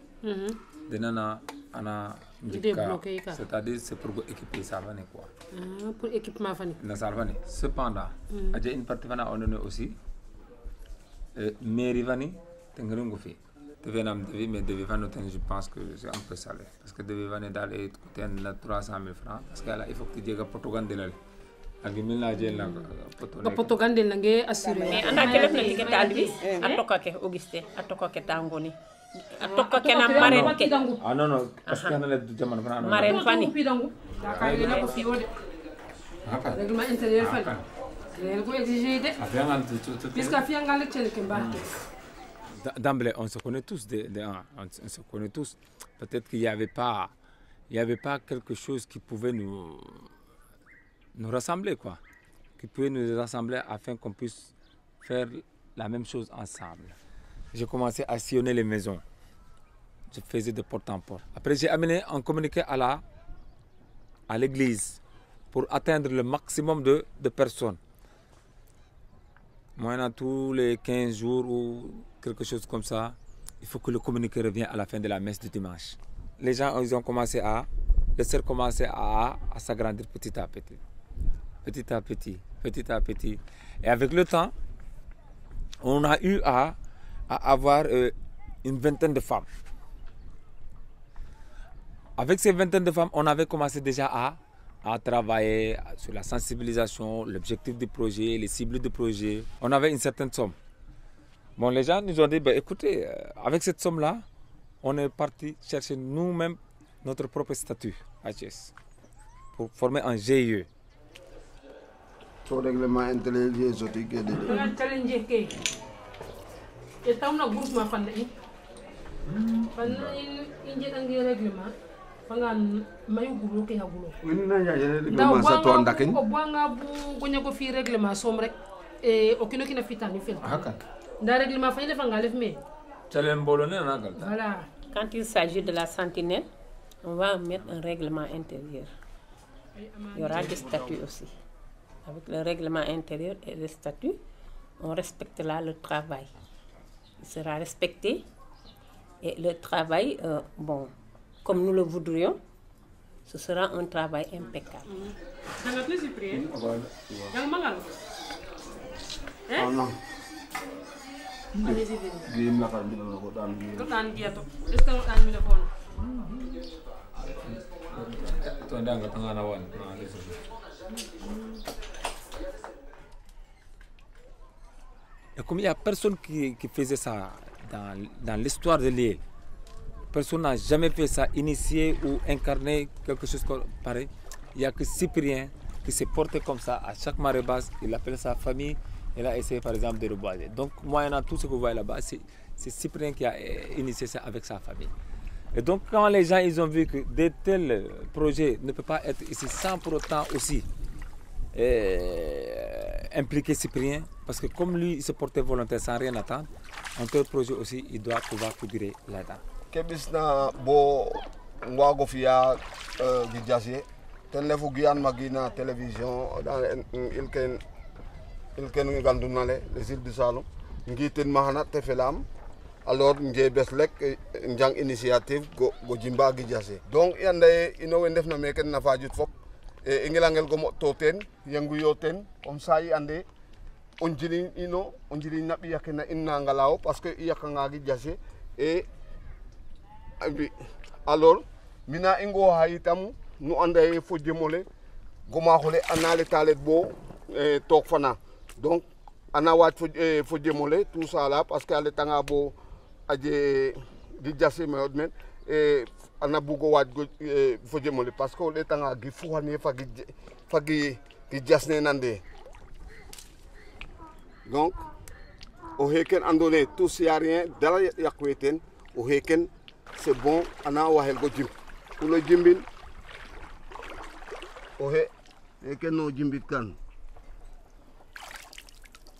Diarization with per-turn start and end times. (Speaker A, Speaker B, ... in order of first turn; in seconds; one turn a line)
Speaker A: 0.2-0.6
Speaker B: 0.9-5.3
Speaker A: 2.5-3.4
Speaker A: 5.5-6.8
Speaker B: 6.8-10.0
Speaker A: 8.3-8.6
Speaker B: 11.3-21.2
Speaker B: 21.8-23.7
Speaker A: 23.4-26.8
Speaker C: 24.8-28.8
Speaker C: 29.4-30.8
Speaker A: 29.4-31.0
Speaker B: 30.1-33.3
Speaker C: 31.7-32.0
Speaker C: 32.8-33.5
Speaker A: 33.0-35.3
Speaker B: 34.3-35.1
Speaker C: 34.4-34.9
Speaker B: 36.2-36.6
Speaker A: 36.5-37.5
Speaker B: 37.2-37.6
Speaker A: 38.1-39.2
Speaker B: 39.2-40.4
Speaker A: 40.1-41.7
Speaker B: 41.3-41.6
Speaker B: 42.6-47.1
Speaker B: 47.7-50.1
Speaker B: 51.1-52.0
Speaker B: 52.6-57.0
Speaker B: 57.5-59.0
Speaker B: 60.1-63.0
Speaker B: 64.3-65.0
Speaker B: 65.5-67.8
Speaker B: 69.8-80.8
Speaker B: 81.6-84.5
Speaker B: 85.8-86.8
Speaker B: 87.3-89.5
Speaker B: 92.2-100.6
Speaker B: 101.6-104.2
Speaker B: 104.8-108.7
Speaker B: 109.5-110.7
Speaker D: 112.5-114.7
Speaker A: 114.4-115.5
Speaker A: 117.0-118.3
Speaker A: 119.7-121.7
Speaker A: 122.3-124.2
Speaker D: 124.2-126.2
Speaker A: 125.1-130.7
Speaker A: 131.2-132.6
Speaker B: 133.1-134.3
Speaker A: 134.2-134.7
Speaker C: 134.9-136.5
Speaker C: 137.0-138.9
Speaker A: 139.8-140.9
Speaker C: 140.2-141.3
Speaker C: 142.1-144.2
Speaker C: 144.8-146.3
Speaker C: 147.2-148.2
Speaker C: 149.2-150.9
Speaker C: 151.4-152.4
Speaker C: 153.3-154.9
Speaker A: 154.9-156.5
Speaker D: 156.3-157.3
Speaker A: 157.3-157.9
Speaker A: 159.5-159.8
Speaker D: 159.6-159.9
Speaker A: 161.6-162.3
Speaker D: 161.7-163.9
Speaker A: 163.7-165.7
Speaker B: 167.2-170.4
Speaker B: 175.4-179.2
Speaker B: 180.1-194.9
Speaker B: 195.5-200.7
Speaker B: 201.5-209.4
Speaker D: 209.7-217.6
Speaker D: 218.6-222.2
Speaker D: 222.8-229.3
Speaker D: 229.8-233.2
Speaker D: 234.0-238.9
Speaker D: 240.2-240.5
Speaker D: 241.1-244.7
Speaker D: 245.3-252.6
Speaker D: 253.1-262.2
Speaker D: 264.5-264.8
Speaker D: 265.8-272.7
Speaker D: 274.8-276.8